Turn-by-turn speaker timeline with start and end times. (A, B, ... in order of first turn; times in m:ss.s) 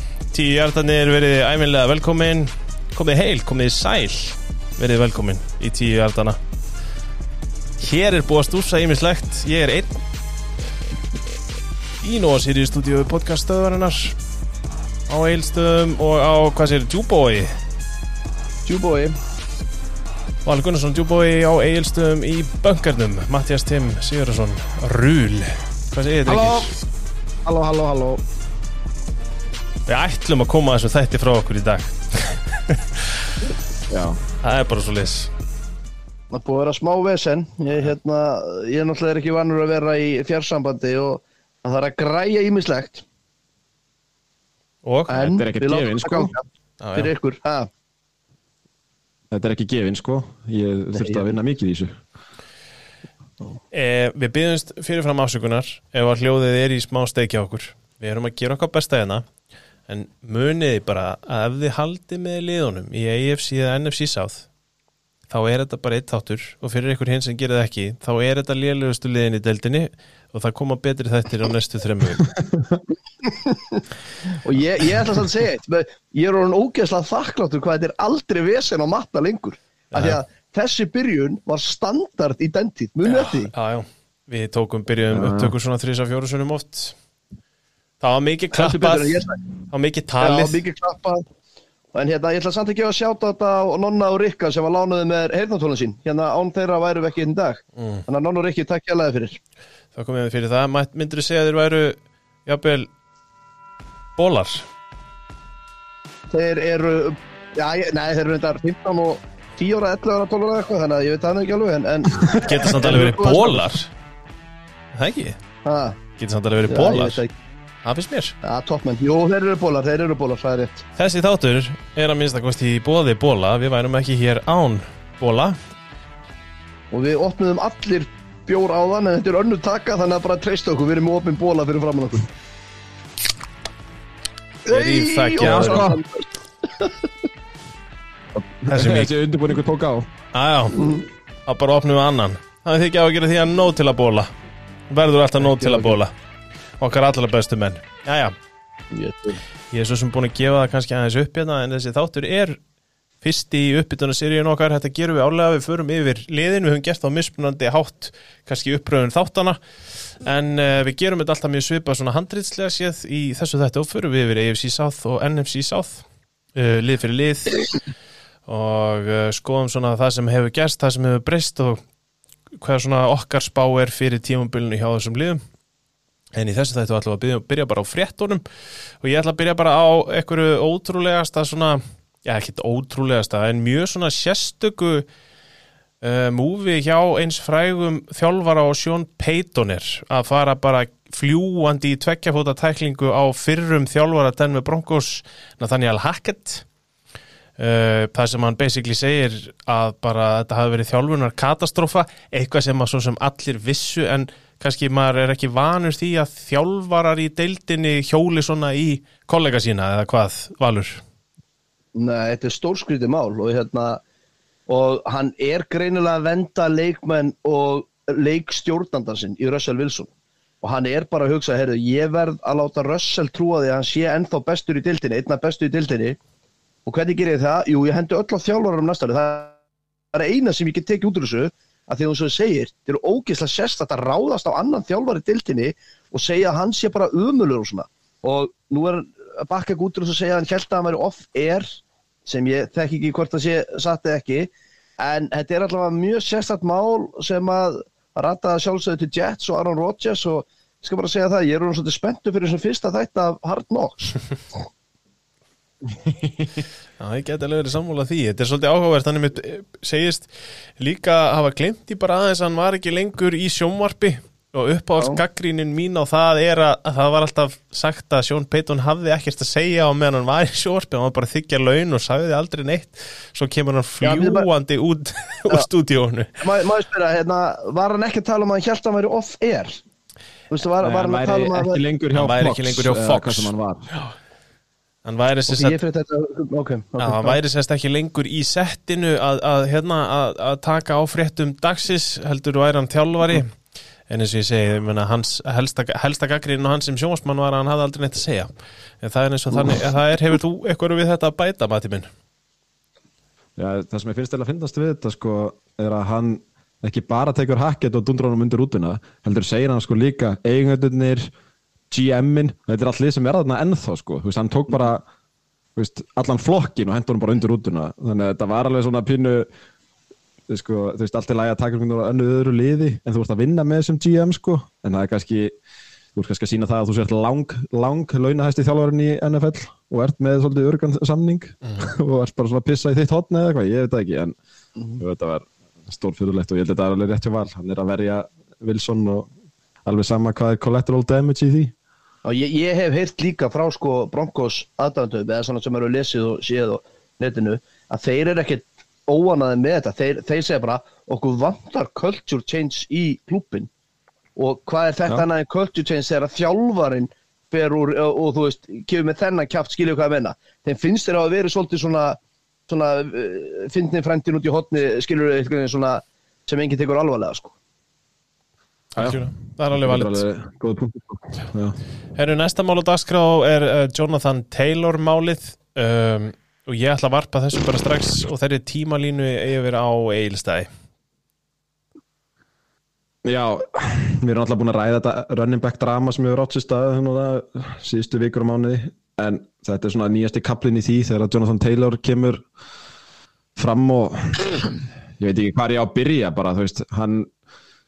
0:00.3-0:06.4 A
0:07.8-0:10.0 A
0:12.0-0:14.2 A
0:15.1-0:17.5 A
0:18.7-0:19.2 B
0:20.4-0:26.7 A
0:26.3-0:26.7 C
0:27.4-0:28.2 C
0:29.9-0:33.3 A
0:33.9-0:34.2 C
0:34.4-0:35.3 A
0:36.3-0:43.0 B
0:44.8-0:45.4 A
0:45.1-0:47.7 B
0:45.3-0:46.3 C
0:46.8-0:47.1 A
0:49.3-0:51.9 C
0:50.9-0:51.3 B
0:53.7-0:59.2 A
0:59.9-1:04.5 A
1:05.3-1:12.3 A
1:13.4-1:23.5 B
1:19.9-1:20.2 A
1:23.0-1:27.0 A
1:25.1-1:25.5 C
1:28.0-1:30.6 A
1:28.5-1:29.4 B
1:30.2-1:31.2 B
1:31.9-1:39.4 B
1:37.8-1:38.0 A
1:40.0-1:42.9 A
1:44.2-1:44.7 A
1:46.3-1:53.7 B
1:52.2-1:52.6 C
1:52.4-1:53.9 A
1:54.9-1:55.4 A
1:55.6-1:56.0 B
1:56.2-1:57.2 A
1:56.7-1:57.3 B
1:57.8-1:58.4 A
1:58.4-2:00.8 B
2:01.0-2:05.6 A
2:06.9-2:12.3 B
2:14.7-2:17.1 B
2:14.7-2:15.9 A
2:15.4-2:16.0 C
2:18.6-2:20.1 C
2:18.7-2:19.1 A
2:20.3-2:20.9 A
2:20.8-2:21.0 B
2:21.5-2:24.3 A
2:24.9-2:26.1 A
2:25.5-2:26.0 B
2:26.8-2:28.3 A
2:28.9-2:29.4 B
2:29.7-2:32.6 A
2:33.2-2:46.0 A
2:46.6-2:47.7 A
2:48.5-2:51.8 A
2:52.5-2:55.4 A
2:56.4-2:58.4 A
2:59.0-3:05.1 A
3:06.0-3:16.6 A
3:17.6-3:31.0 A
3:32.0-3:34.0 B
3:34.7-3:40.1 B
3:40.6-3:46.2 B
3:46.9-3:49.6 B
3:50.1-4:14.2 B
4:17.0-4:36.4 A
4:34.0-4:34.5 B
4:36.4-4:39.8 B
4:40.5-4:41.8 B
4:40.8-4:43.9 C
4:42.2-4:44.1 A
4:45.0-4:45.8 A
4:45.5-4:47.4 B
4:47.0-4:53.5 A
4:54.1-5:02.1 A
5:03.6-5:11.3 C
5:11.9-5:15.0 C
5:15.8-5:19.5 C
5:20.5-5:25.5 C
5:26.2-5:34.4 C
5:35.0-5:39.3 C
5:39.8-5:41.7 C
5:42.2-5:53.7 B
5:54.4-6:07.6 B
6:09.0-6:10.3 A
6:09.0-6:09.2 C
6:09.8-6:11.8 C
6:12.2-6:20.7 A
6:23.2-6:32.4 C
6:33.6-6:37.3 C